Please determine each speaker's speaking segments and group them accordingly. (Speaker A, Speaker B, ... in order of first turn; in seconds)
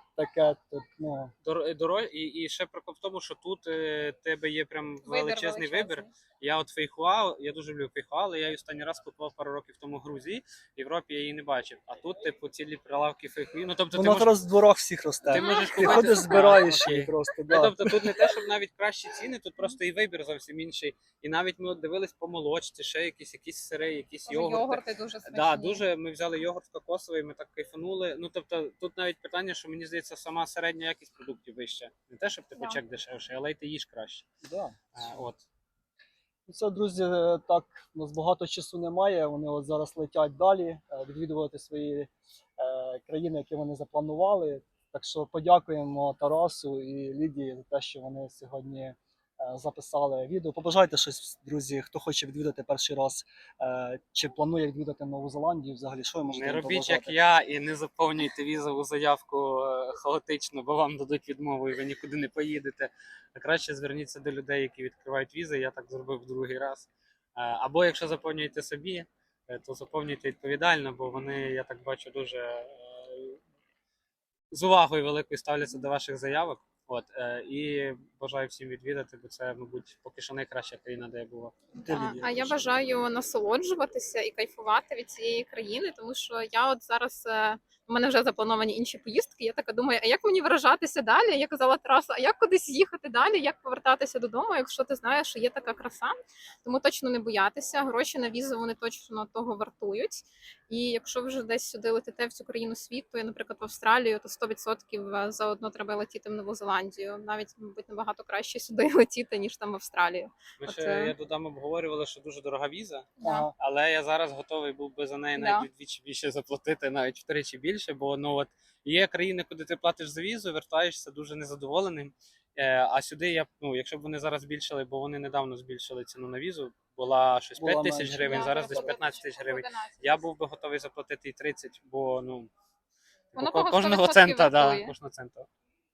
Speaker A: 0.2-1.3, 13.9-18.0, 34.4-35.1, 36.5-57.1, 81.8-82.9, 113.2-113.5, 127.6-128.9
Speaker B: 1.4-14.4, 15.3-34.3, 35.0-35.4, 56.3-73.4, 74.5-81.5, 110.6-132.5, 133.3-135.5
Speaker C: 5.0-6.1, 15.3-16.7, 24.3-25.8, 32.6-32.8, 81.9-96.1, 96.6-111.1, 113.2-113.5, 115.4-115.7, 128.1-130.2, 133.4-134.9